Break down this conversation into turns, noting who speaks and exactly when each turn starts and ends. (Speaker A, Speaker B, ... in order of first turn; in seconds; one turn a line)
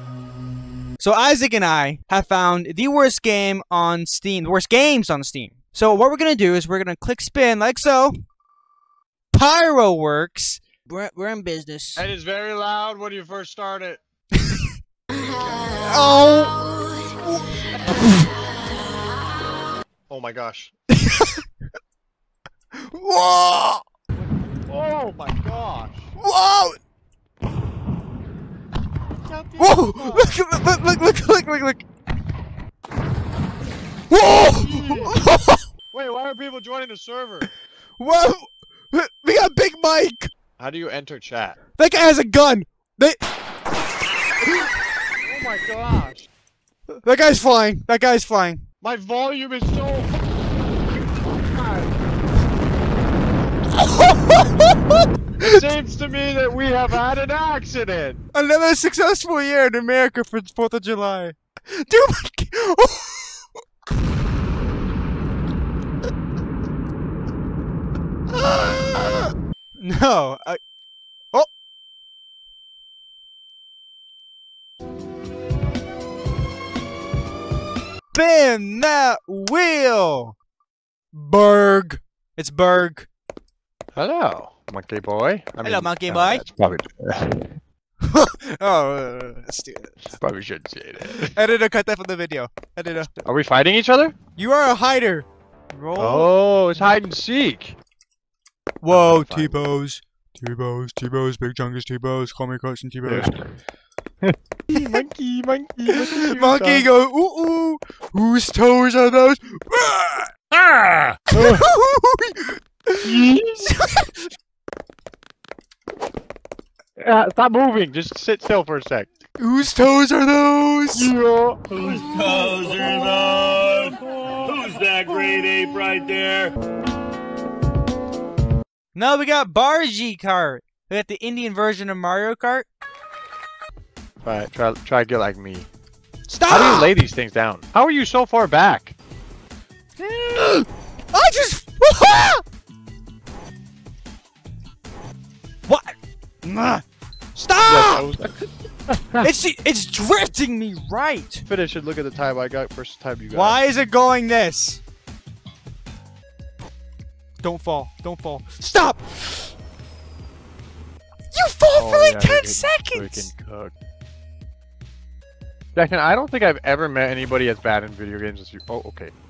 Speaker A: 1.0-8.1
Speaker A: 9.3-12.1
Speaker B: 12.0-14.0
Speaker A: 14.4-14.7
Speaker A: 15.6-16.9
Speaker B: 20.1-20.7
Speaker A: 20.9-21.4
Speaker A: 22.7-23.9
Speaker B: 24.7-26.1
Speaker A: 26.2-26.8
Speaker B: 29.2-30.4
Speaker A: 29.6-31.9
Speaker A: 34.1-35.6
Speaker B: 34.4-35.2
Speaker B: 35.9-37.5
Speaker A: 38.0-40.3
Speaker B: 40.6-41.6
Speaker A: 41.8-43.2
Speaker B: 45.2-46.3
Speaker A: 46.9-48.6
Speaker B: 48.8-50.2
Speaker B: 51.1-52.0
Speaker A: 53.8-55.6
Speaker B: 55.5-58.2
Speaker A: 58.3-63.6
Speaker A: 68.3-70.6
Speaker A: 78.1-80.4
Speaker A: 81.1-83.1
Speaker B: 84.0-87.6
Speaker A: 85.6-86.5
Speaker A: 88.0-90.1
Speaker B: 90.2-91.3
Speaker A: 91.1-93.1
Speaker B: 93.2-94.2
Speaker A: 94.4-96.3
Speaker B: 96.0-97.8
Speaker A: 98.8-103.3
Speaker B: 98.9-99.6
Speaker B: 103.1-103.6
Speaker B: 104.2-106.9
Speaker A: 104.7-105.0
Speaker A: 105.9-110.3
Speaker B: 110.6-111.7
Speaker A: 111.3-113.1
Speaker B: 113.0-113.8
Speaker A: 113.7-114.3
Speaker B: 117.0-119.1
Speaker A: 119.4-121.1
Speaker B: 120.9-121.8
Speaker C: 121.7-126.5
Speaker A: 128.9-132.7
Speaker B: 134.2-135.7
Speaker A: 136.3-136.9
Speaker B: 136.5-138.9
Speaker A: 140.0-142.4
Speaker A: 145.7-146.8
Speaker A: 147.3-148.1
Speaker B: 147.7-149.3
Speaker A: 149.2-151.4
Speaker B: 151.5-153.6
Speaker A: 153.3-154.8
Speaker A: 157.4-159.5
Speaker A: 161.3-163.3
Speaker B: 161.8-163.7
Speaker B: 165.8-169.1